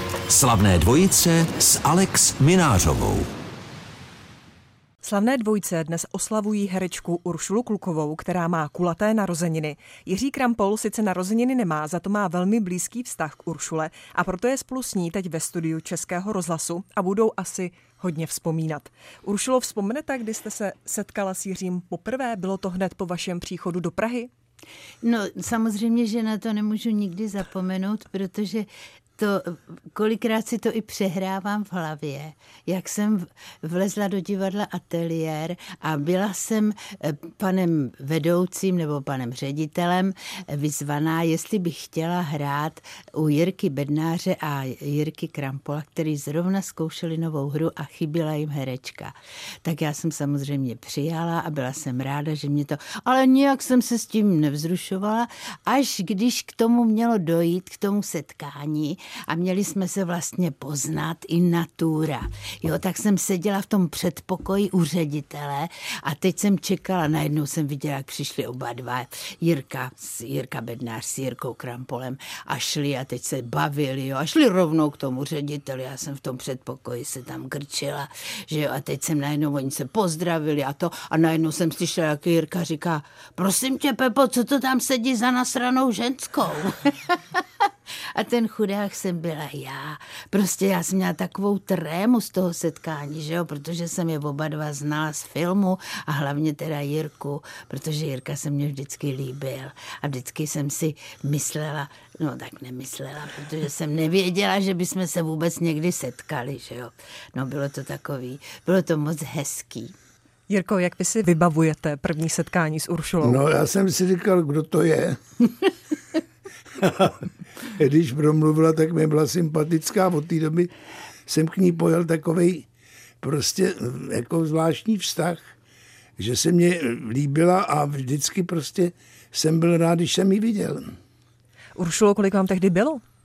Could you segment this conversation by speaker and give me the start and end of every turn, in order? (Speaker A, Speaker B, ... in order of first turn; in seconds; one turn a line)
Speaker A: 0.3-3.3
Speaker B: 5.0-24.3
Speaker C: 25.0-87.4
Speaker C: 88.1-109.9
Speaker B: 110.5-113.4
Speaker D: 113.2-115.2
Speaker D: 116.8-120.7
Speaker D: 121.3-122.7
Speaker D: 123.2-125.5
Speaker D: 126.2-130.9
Speaker B: 131.8-133.0